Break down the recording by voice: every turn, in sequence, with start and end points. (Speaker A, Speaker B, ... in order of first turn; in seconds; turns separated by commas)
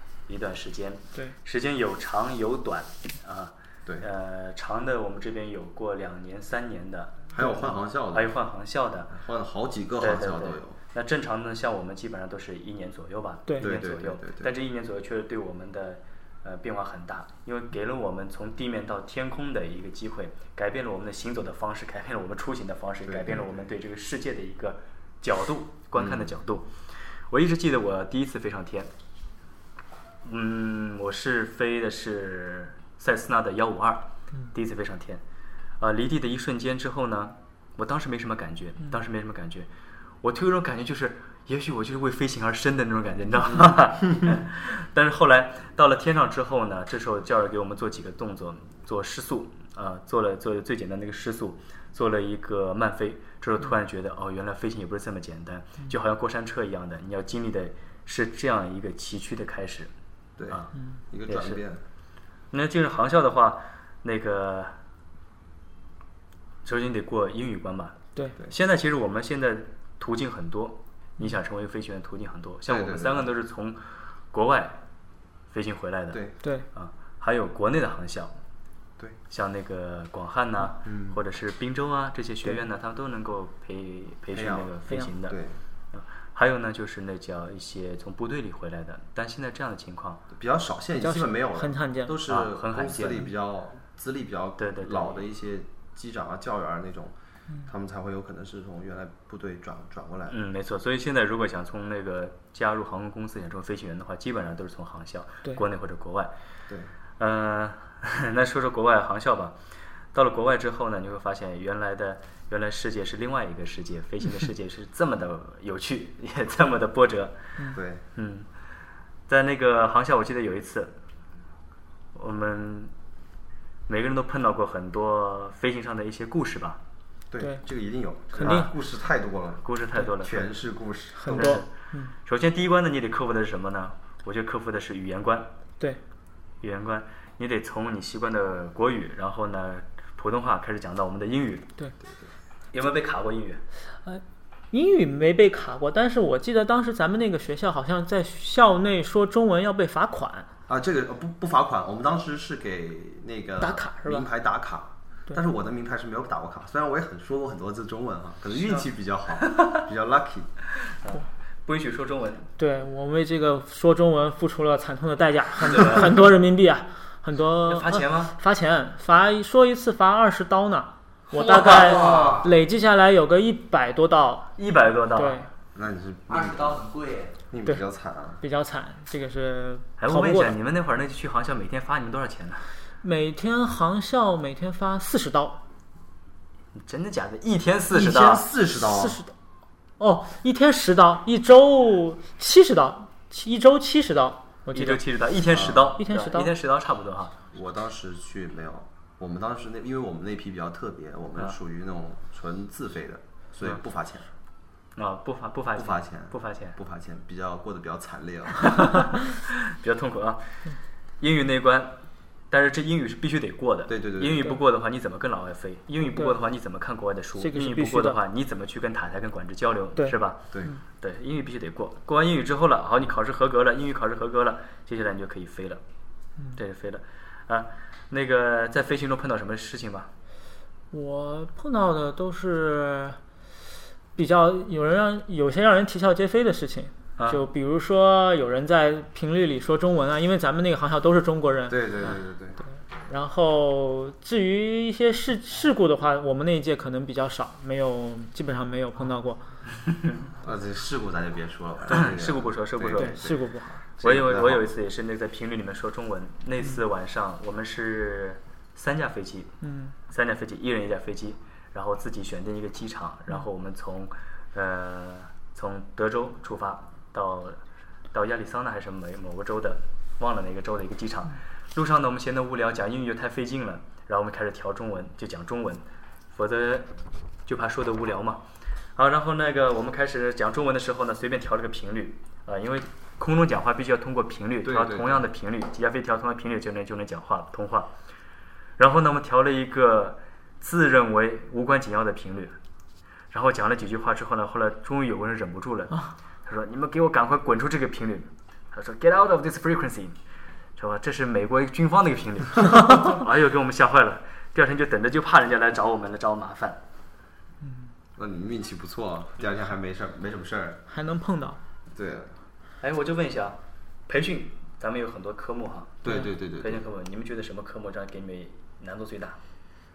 Speaker A: 0.3-9.1, Speaker B: 7.3-8.3, Speaker B: 9.1-10.8, Speaker A: 10.0-26.7, Speaker B: 13.6-14.5, Speaker B: 23.0-23.5, Speaker B: 25.9-26.3, Speaker A: 27.3-28.9, Speaker A: 30.2-35.2, Speaker A: 35.8-39.7, Speaker A: 40.2-59.9, Speaker B: 60.4-61.8, Speaker A: 61.3-61.6, Speaker A: 62.5-64.7, Speaker A: 66.6-73.8, Speaker B: 72.7-73.3, Speaker A: 74.3-74.8, Speaker A: 75.5-78.3, Speaker A: 79.3-85.3, Speaker B: 80.8-81.2, Speaker B: 84.3-85.6, Speaker A: 85.9-90.2, Speaker B: 90.3-97.1, Speaker C: 91.0-92.2, Speaker A: 92.3-93.2, Speaker A: 94.6-95.2, Speaker B: 97.7-100.4, Speaker A: 100.3-106.3, Speaker A: 107.2-109.5, Speaker A: 110.1-117.3, Speaker B: 117.7-118.0, Speaker A: 118.2-118.5, Speaker A: 119.3-120.9, Speaker A: 122.1-122.9, Speaker A: 123.9-126.8, Speaker B: 127.3-131.6, Speaker A: 128.3-128.7, Speaker C: 128.4-128.7, Speaker A: 129.6-130.5, Speaker C: 131.1-132.1, Speaker A: 131.3-131.7, Speaker A: 132.2-135.5, Speaker A: 136.6-141.7, Speaker A: 142.7-143.6, Speaker C: 144.0-150.5, Speaker B: 150.7-160.5, Speaker C: 153.6-154.2, Speaker A: 161.0-162.5, Speaker C: 162.6-174.5, Speaker A: 165.6-166.2, Speaker A: 167.6-168.3, Speaker D: 171.3-172.4, Speaker A: 174.6-175.4, Speaker C: 175.1-175.5, Speaker B: 175.7-176.8, Speaker D: 176.3-177.3, Speaker B: 177.5-178.4, Speaker C: 178.4-180.5, Speaker A: 180.0-182.7, Speaker C: 183.0-185.6, Speaker A: 186.7-188.4, Speaker B: 187.9-189.2, Speaker C: 188.8-189.3, Speaker C: 190.0-195.0, Speaker A: 194.7-197.3, Speaker B: 195.5-195.9, Speaker C: 196.0-196.5, Speaker B: 197.5-204.3, Speaker A: 204.9-206.8, Speaker B: 205.8-208.9, Speaker A: 208.6-210.6, Speaker A: 211.2-212.0, Speaker A: 212.5-220.4, Speaker B: 213.9-214.5, Speaker C: 217.4-218.2, Speaker A: 221.0-225.8, Speaker A: 226.6-230.1, Speaker C: 230.9-233.2, Speaker C: 234.2-241.8, Speaker A: 237.2-237.4, Speaker B: 241.7-242.6, Speaker C: 243.1-249.4, Speaker B: 250.4-253.4, Speaker A: 251.9-253.2, Speaker C: 253.0-253.8, Speaker B: 254.0-254.7, Speaker A: 254.0-259.5, Speaker C: 259.6-259.9, Speaker A: 260.1-267.6, Speaker A: 268.1-276.9, Speaker A: 277.4-278.4, Speaker A: 278.9-287.9, Speaker B: 284.6-285.3, Speaker A: 288.8-292.6, Speaker A: 293.3-300.1, Speaker A: 300.8-306.8, Speaker C: 307.6-307.9, Speaker B: 308.1-310.8, Speaker C: 310.9-311.6, Speaker B: 311.9-312.3, Speaker A: 312.8-319.4, Speaker B: 316.0-316.8